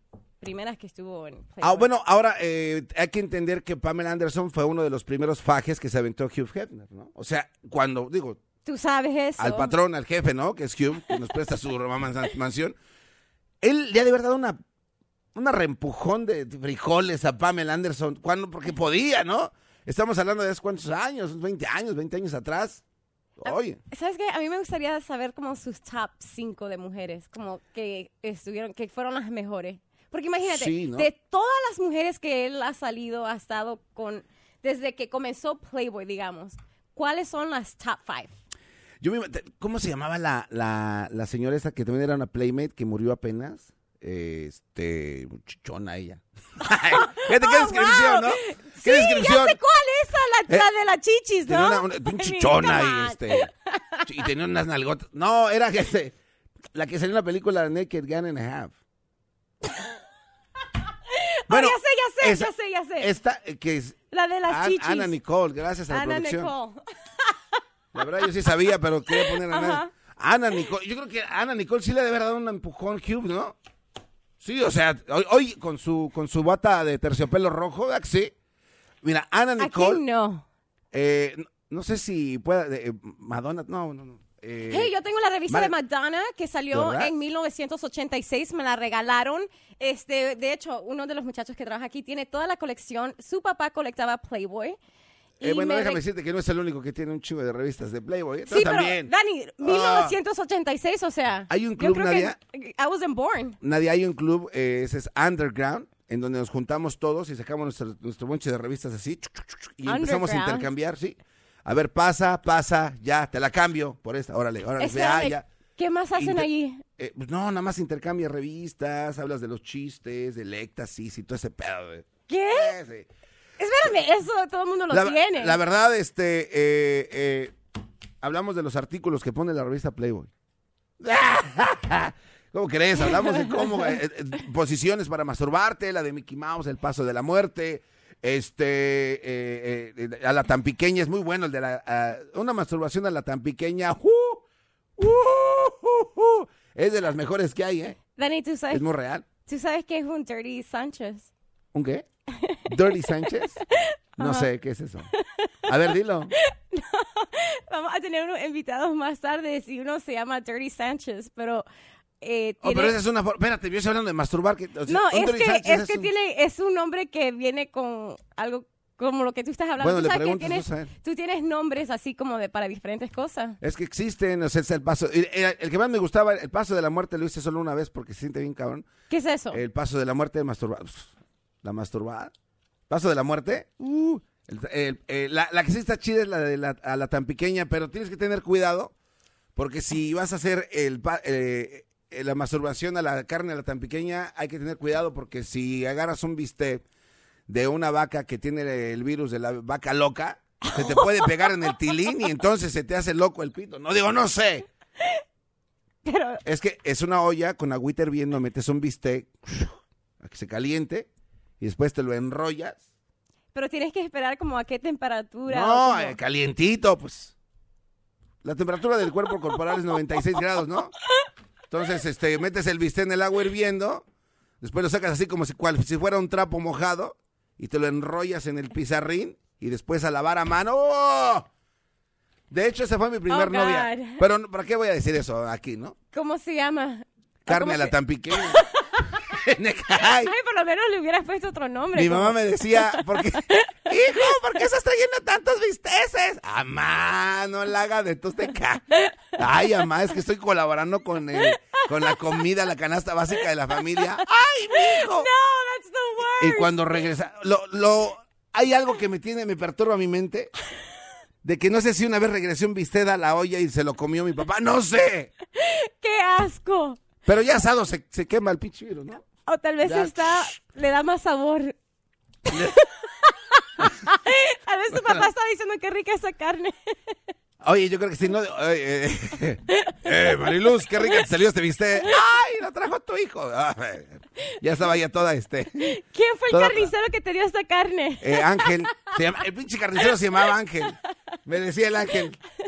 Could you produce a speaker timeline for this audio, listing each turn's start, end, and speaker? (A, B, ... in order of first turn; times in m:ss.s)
0:00.4-0:01.9 A
0:01.6-0:08.4 B
0:08.6-0:09.7 A
0:09.4-0:12.8 B
0:13.6-0:14.6 B
0:15.3-0:22.8 B
0:23.4-0:23.8 B
0:23.4-0:38.3 A
0:30.4-0:31.1 B
0:39.0-0:49.6 B
0:46.9-0:54.1 A
0:51.5-0:53.5 B
0:54.1-0:56.2 B
0:56.7-0:58.8 B
1:01.1-1:03.1 A
1:01.5-1:06.5 B
1:04.1-1:05.1 A
1:05.9-1:07.4 A
1:07.9-1:13.6 B
1:09.1-1:09.9 A
1:14.4-1:18.3 B
1:19.0-1:20.0 B
1:19.6-1:20.4 A
1:20.9-1:24.9 B
1:24.7-1:34.8 A
1:25.5-1:25.7 B
1:26.7-1:27.1 B
1:35.4-1:36.0 A
1:35.4-1:40.2 B
1:38.5-1:43.6 A
1:41.5-1:42.4 B
1:43.6-1:55.5 B
1:49.9-1:50.7 A
1:54.8-1:56.8 A
1:56.2-2:03.1 B
2:02.3-2:02.8 A
2:03.6-2:05.6 A
2:04.9-2:07.6 B
2:08.2-2:10.3 B
2:11.0-2:24.4 B
2:13.0-2:13.9 A
2:25.0-2:28.0 B
2:28.2-2:28.8 A
2:28.7-2:29.3 B
2:29.5-2:31.3 A
2:31.7-2:32.1 B
2:32.4-2:33.0 A
2:32.7-2:33.6 B
2:33.8-2:34.5 A
2:34.2-2:35.1 B
2:35.2-2:35.5 A
2:35.7-2:36.3 B
2:36.4-2:41.7 A
2:42.2-2:43.0 A
2:42.6-2:46.1 B
2:44.9-2:53.6 A
2:49.8-2:50.9 B
2:53.6-2:58.9 B
2:59.1-2:59.6 A
2:59.5-3:02.3 B
3:02.9-3:08.9 B
3:09.6-3:16.8 B
3:17.5-3:24.7 B
3:20.6-3:21.6 A
3:26.0-3:26.4 A
3:26.4-3:31.1 B
3:31.6-3:32.8 B
3:33.5-3:36.2 A
3:35.5-3:37.4 B
3:38.4-3:40.9 B
3:41.7-3:44.1 B
3:44.6-3:51.5 B
3:52.5-3:56.0 B
3:53.3-3:54.2 A
3:56.1-3:59.0 A
3:57.5-3:58.6 B
3:59.3-4:00.3 B
4:00.2-4:03.7 A
4:01.9-4:15.3 B
4:12.0-4:12.3 A
4:14.8-4:16.8 A
4:16.4-4:20.5 B
4:21.4-4:25.3 B
4:25.6-4:27.0 A
4:27.3-4:29.2 B
4:29.5-4:31.8 A
4:29.8-4:30.5 B
4:32.5-4:37.1 A
4:34.9-4:35.2 B
4:37.6-4:46.0 B
4:45.8-4:49.2 A
4:46.5-4:46.9 B
4:48.2-4:52.4 B